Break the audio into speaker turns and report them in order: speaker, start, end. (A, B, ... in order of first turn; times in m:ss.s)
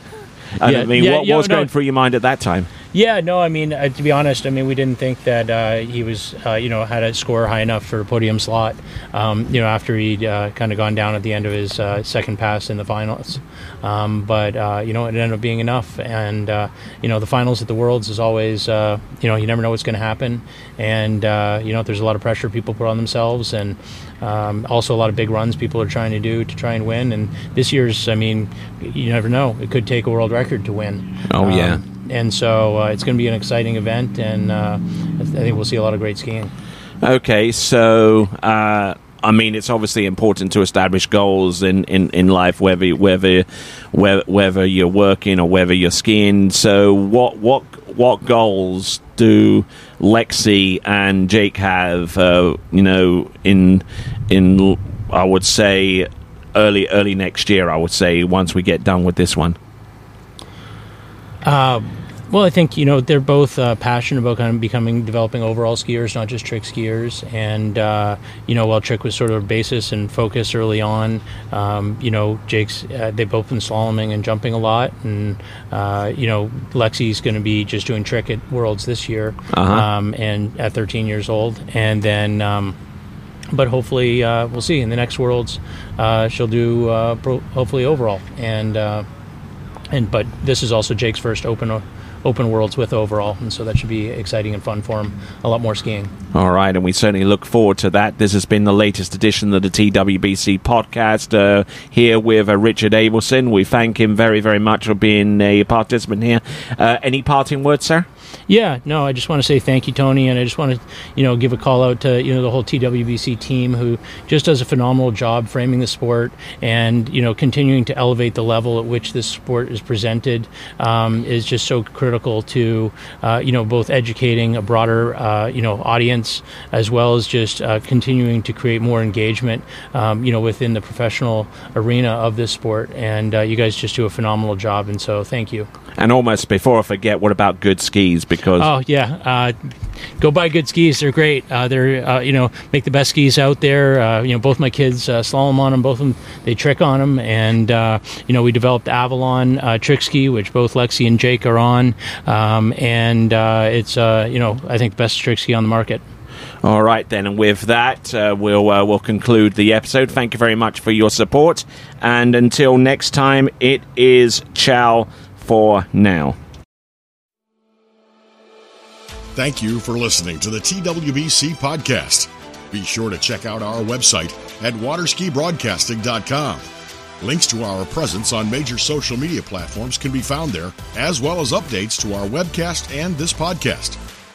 0:00.6-0:02.7 A
0:00.6-0:01.7 B
0:02.9-0:36.5 B
0:31.3-0:31.8 A
0:37.0-0:59.6 A
1:01.4-1:22.8 B
1:19.5-1:19.9 A
1:23.5-1:29.1 B
1:29.9-1:36.1 B
1:36.3-1:48.1 A
1:48.5-2:15.7 B
2:16.0-2:18.7 A
2:18.6-2:19.6 B
2:20.2-2:36.0 B
2:36.6-2:46.4 A
2:49.4-2:56.6 C
2:57.2-3:04.0 C